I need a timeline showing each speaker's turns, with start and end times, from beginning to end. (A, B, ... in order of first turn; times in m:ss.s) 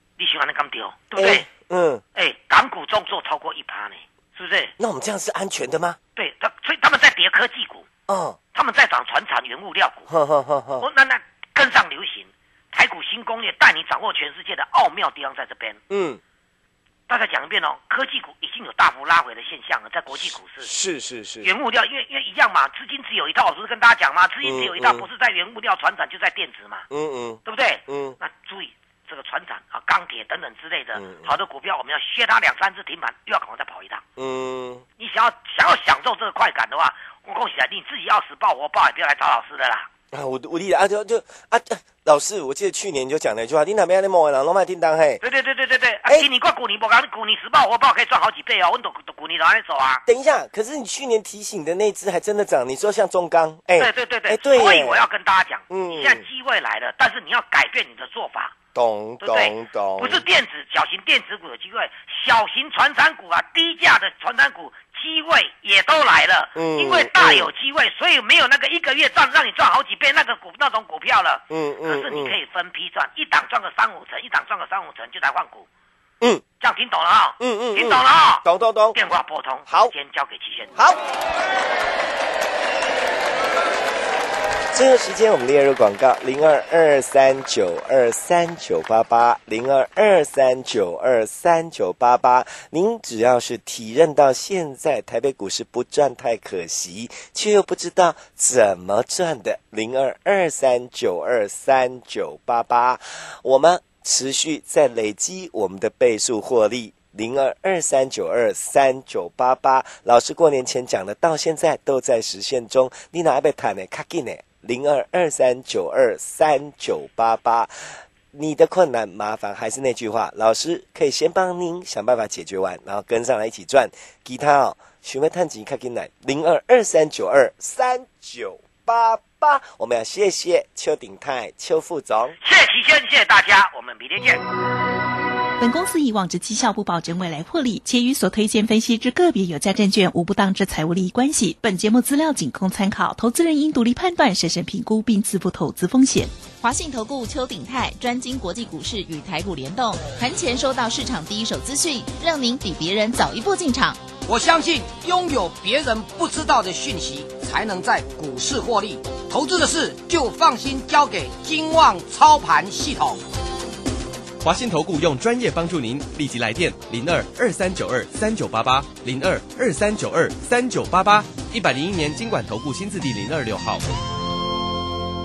0:00.2-0:01.5 A
0:01.1-0:02.0 B
0:02.1-0:04.7 A
0:04.8-0:06.0 B
0:06.2-0:07.9 A
0:08.1-0:08.4 B
0:08.5-0:10.1 A
0:10.1-0:10.8 B
0:10.8-0:15.8 A
0:15.9-0:16.2 B
0:17.1-0:20.7 A
0:20.1-0:21.5 B
0:21.4-0:26.9 A
0:24.4-0:25.0 B
0:26.9-0:28.2 B
0:27.4-0:34.0 A
0:31.0-0:31.3 B
0:34.2-0:34.8 B
0:35.0-0:39.9 A
0:40.1-0:45.2 B
0:45.2-0:50.0 A
0:50.0-0:55.0 B
0:53.8-0:58.5 A
0:55.7-0:56.2 B
0:58.7-1:00.2 B
0:59.2-1:15.7 A
1:06.6-1:07.5 B
1:11.5-1:12.3 B
1:16.6-1:20.7 A
1:17.4-1:19.0 B
1:19.7-1:19.9 B
1:24.7-2:12.4 B
2:12.4-2:14.4 A
2:15.6-2:26.4 C
2:26.6-2:34.0 D
2:34.2-2:43.2 E
2:44.4-2:53.8 F